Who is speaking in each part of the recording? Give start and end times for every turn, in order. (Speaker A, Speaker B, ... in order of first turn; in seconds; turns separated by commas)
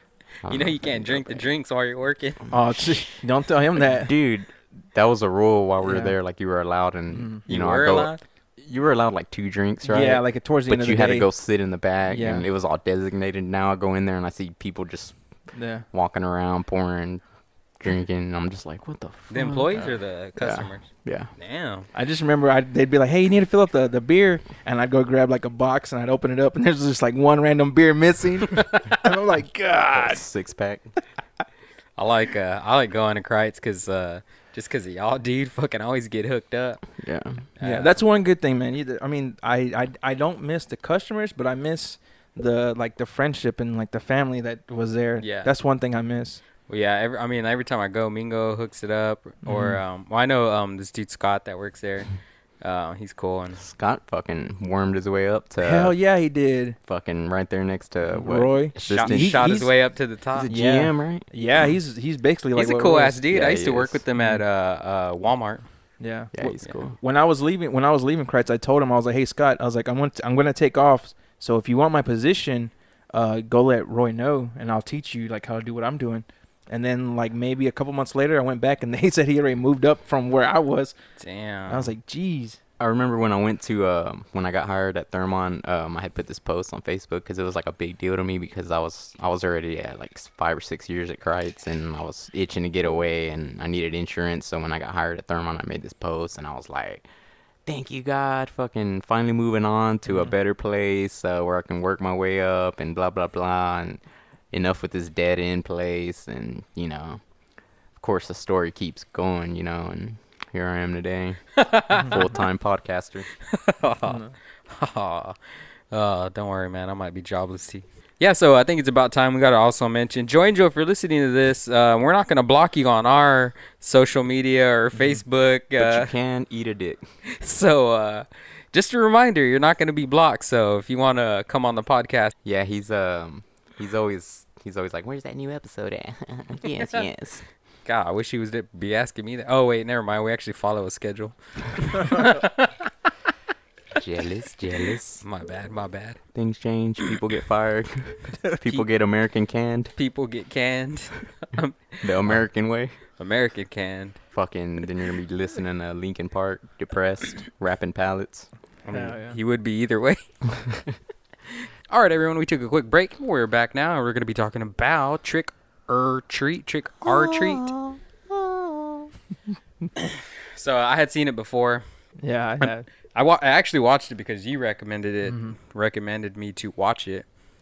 Speaker A: 0.4-1.5, Speaker B: 0.5-2.4, Speaker C: 2.5-4.1, Speaker A: 3.9-15.2, Speaker C: 5.8-6.1, Speaker C: 7.1-7.4, Speaker B: 7.5-8.2, Speaker C: 9.8-11.3, Speaker C: 12.1-12.4, Speaker C: 15.5-15.8, Speaker A: 15.9-17.2, Speaker A: 17.8-21.3, Speaker B: 19.3-21.9, Speaker C: 21.9-30.2, Speaker B: 28.6-29.0, Speaker A: 29.9-30.9, Speaker B: 32.0-36.8, Speaker A: 37.0-37.4, Speaker B: 37.6-37.9, Speaker C: 37.6-46.4, Speaker B: 45.2-45.5, Speaker B: 46.7-53.6, Speaker C: 49.4-49.8, Speaker A: 53.6-55.9, Speaker C: 55.6-56.8, Speaker A: 56.9-59.6, Speaker C: 58.1-59.7, Speaker B: 58.9-60.5, Speaker A: 60.3-61.3, Speaker C: 60.5-63.2, Speaker B: 62.5-65.6, Speaker A: 63.3-64.0, Speaker C: 66.0-80.9, Speaker A: 66.3-67.0, Speaker B: 81.2-81.9, Speaker C: 81.7-82.6, Speaker A: 82.8-97.0, Speaker A: 97.7-104.0, Speaker A: 104.5-107.2, Speaker A: 108.0-113.3, Speaker B: 111.6-112.2, Speaker B: 113.5-115.4, Speaker C: 114.0-114.3, Speaker B: 115.9-126.1, Speaker A: 125.8-127.0, Speaker B: 127.3-132.3, Speaker A: 132.4-137.4, Speaker B: 137.8-142.8, Speaker A: 143.9-145.2, Speaker B: 145.2-146.2, Speaker A: 146.3-149.9, Speaker B: 149.9-152.3, Speaker A: 152.0-153.0, Speaker B: 153.2-154.2, Speaker A: 154.3-158.5, Speaker B: 158.8-160.2, Speaker C: 158.9-159.4, Speaker B: 161.9-167.7, Speaker A: 167.1-169.1, Speaker B: 170.0-171.8, Speaker C: 172.2-172.9, Speaker B: 172.6-177.2, Speaker C: 175.3-175.5